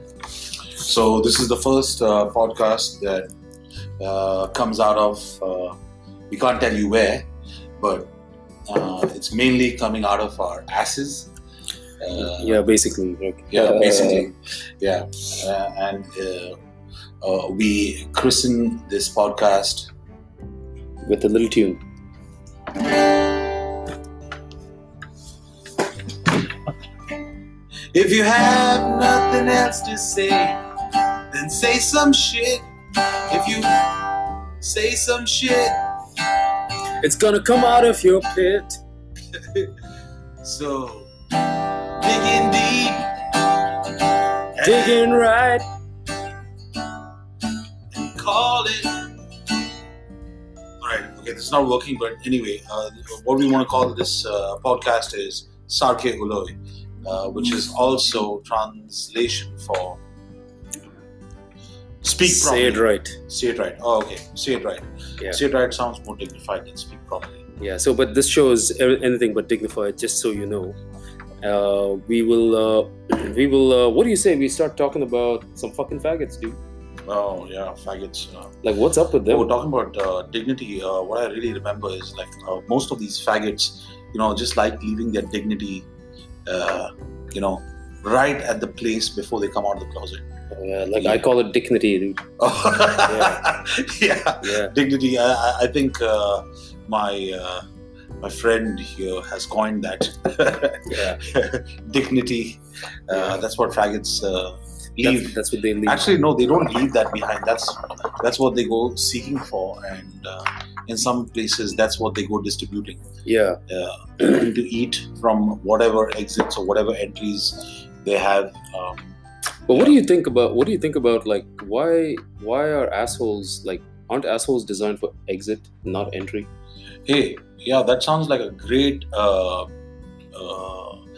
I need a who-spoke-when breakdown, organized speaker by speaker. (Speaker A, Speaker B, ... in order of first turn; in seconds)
Speaker A: 0.8-3.3, 4.0-5.8, 6.3-7.3, 7.8-8.1, 8.7-11.3, 12.0-12.6, 13.5-16.6, 17.2-19.9, 23.0-23.4, 27.9-30.6, 31.3-32.6, 33.2-35.9, 40.4-41.1, 42.0-45.1, 47.9-49.1, 50.8-60.0, 62.0-67.4, 77.1-78.5, 79.3-85.9, 86.5-90.2, 91.0-91.2, 92.4-97.6, 98.2-113.0, 113.7-119.2, 119.7-120.0, 127.0-129.7, 130.3-131.0
Speaker B: 12.2-14.3, 21.1-21.8, 37.0-38.8, 44.6-45.6, 62.2-63.2, 67.6-70.8, 71.4-76.6, 78.6-79.5, 90.5-92.2, 93.1-93.4, 94.4-94.7, 100.9-101.2, 105.0-106.0, 113.2-113.6, 119.7-126.5